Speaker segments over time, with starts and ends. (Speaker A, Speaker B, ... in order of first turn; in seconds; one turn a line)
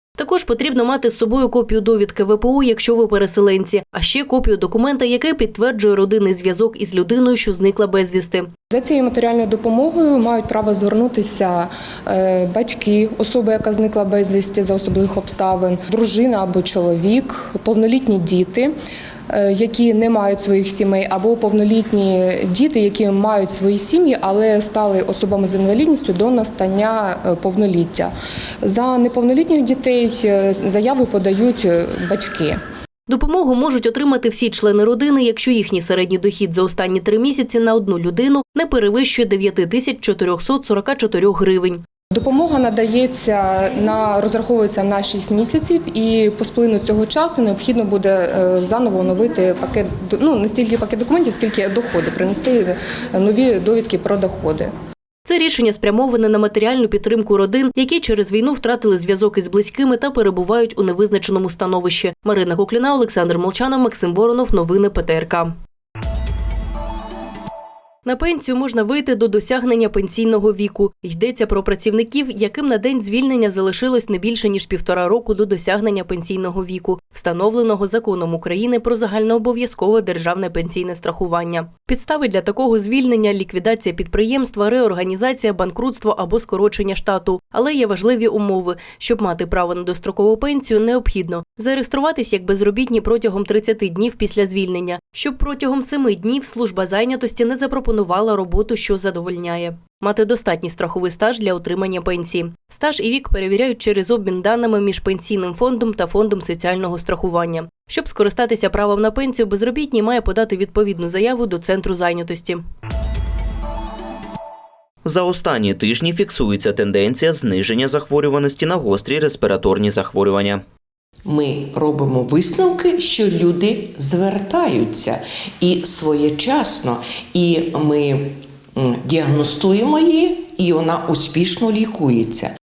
Speaker A: 0.2-8.5
Speaker B: 8.7-18.7
Speaker B: 19.3-28.1
Speaker B: 28.6-32.6
Speaker A: 33.1-41.8
Speaker B: 42.1-54.7
Speaker A: 55.3-65.5
Speaker A: 68.0-112.6
Speaker C: 115.0-120.6
Speaker D: 121.3-132.5